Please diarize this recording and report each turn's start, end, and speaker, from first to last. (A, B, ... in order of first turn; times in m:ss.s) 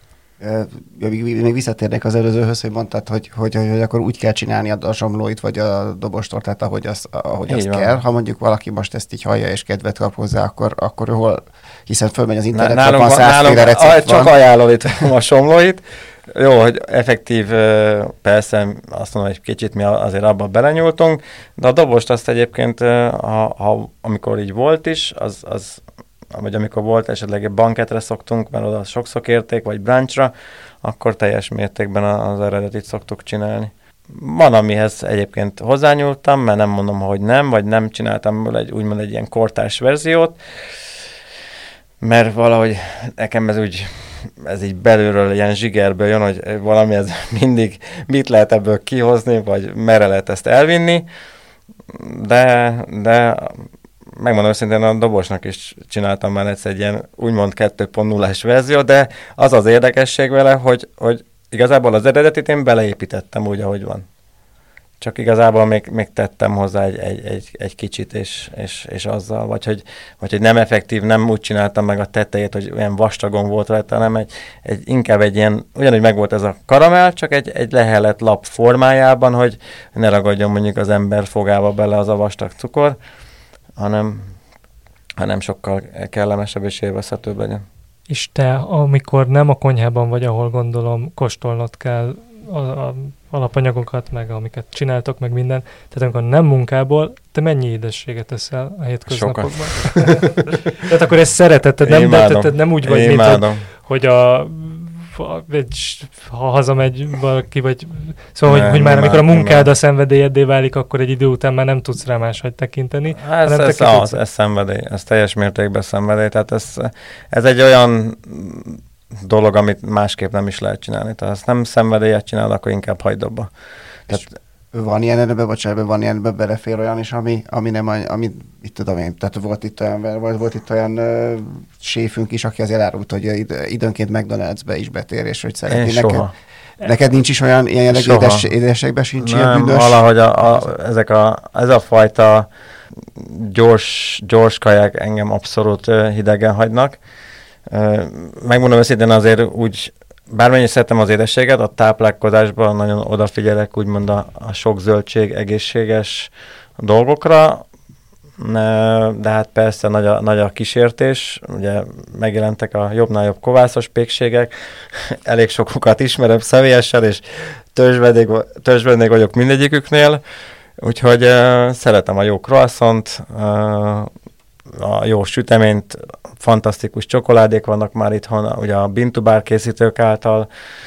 0:00.4-0:14.3 A
0:07.5-0:07.9 B
0:12.5-0:30.3 B
0:30.8-0:40.4 B
0:42.0-0:51.1 B
0:51.9-1:04.0 B
1:05.0-1:23.0 B
1:23.8-1:24.3 B
1:25.2-1:27.6 B
1:28.1-1:54.2 C
1:39.1-1:40.3 B
1:41.8-1:43.6 B
1:48.5-1:49.7 B
1:53.2-2:03.5 B
2:04.1-2:16.2 A
2:15.7-2:16.3 B
2:16.8-2:20.6 A
2:17.9-2:18.5 B
2:19.2-2:22.5 B
2:23.2-2:27.0 B
2:27.7-2:37.6 B
2:38.4-2:50.2 B
2:50.8-2:54.1 B
2:54.7-3:00.5 B